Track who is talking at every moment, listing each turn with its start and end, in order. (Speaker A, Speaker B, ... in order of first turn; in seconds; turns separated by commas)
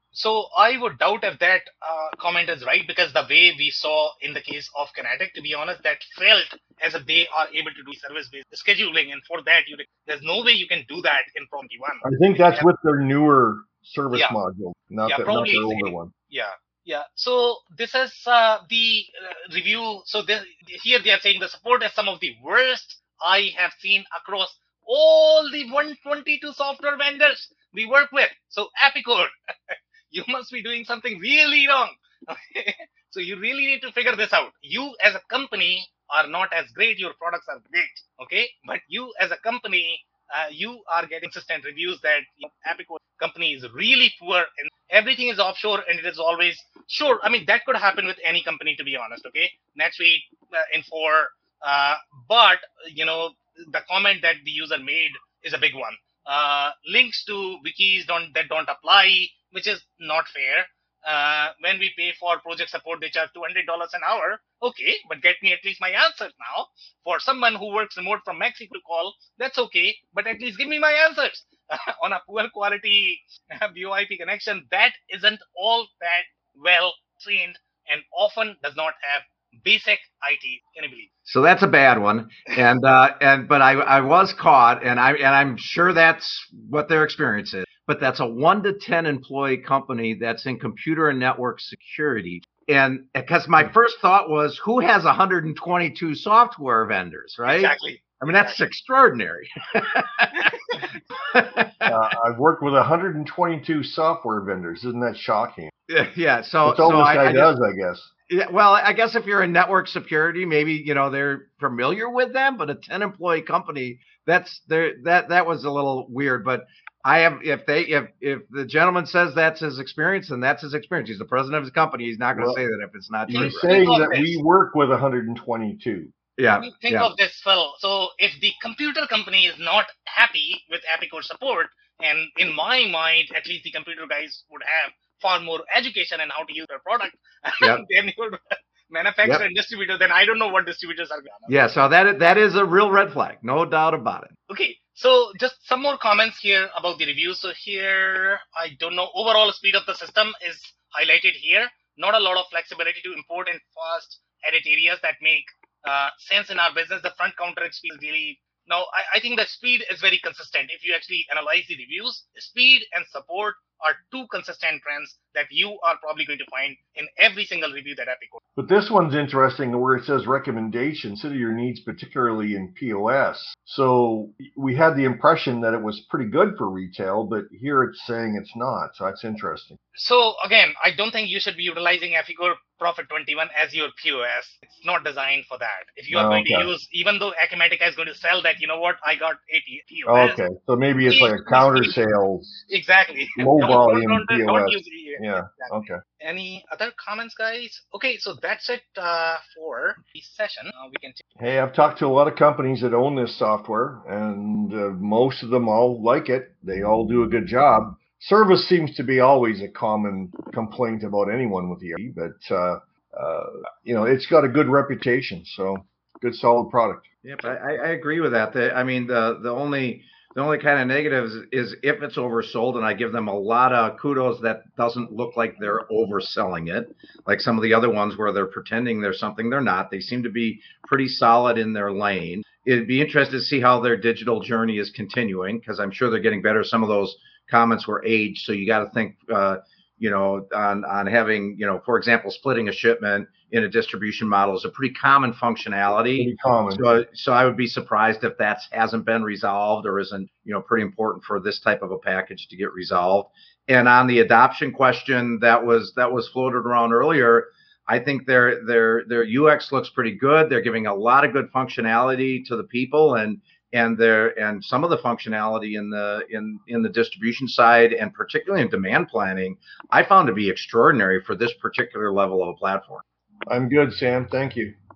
Speaker A: 0.1-12.7, Speaker B: 12.0-16.1, Speaker A: 15.1-81.1, Speaker C: 81.3-100.5, Speaker A: 97.5-98.6, Speaker A: 100.4-100.8, Speaker C: 101.3-101.7, Speaker B: 101.9-105.7, Speaker C: 105.9-107.6, Speaker B: 106.7-108.1, Speaker C: 108.3-123.7, Speaker B: 123.3-126.1, Speaker A: 123.3-124.4, Speaker C: 126.4-127.1, Speaker A: 126.6-141.6, Speaker C: 141.5-144.4, Speaker A: 144.5-168.4, Speaker B: 168.6-179.8, Speaker A: 180.0-190.4, Speaker B: 186.1-186.7, Speaker B: 190.1-192.7, Speaker A: 191.0-191.9, Speaker A: 192.7-201.2, Speaker B: 193.4-196.0, Speaker B: 201.4-217.1, Speaker C: 217.2-273.0, Speaker B: 246.2-246.8, Speaker B: 273.5-274.8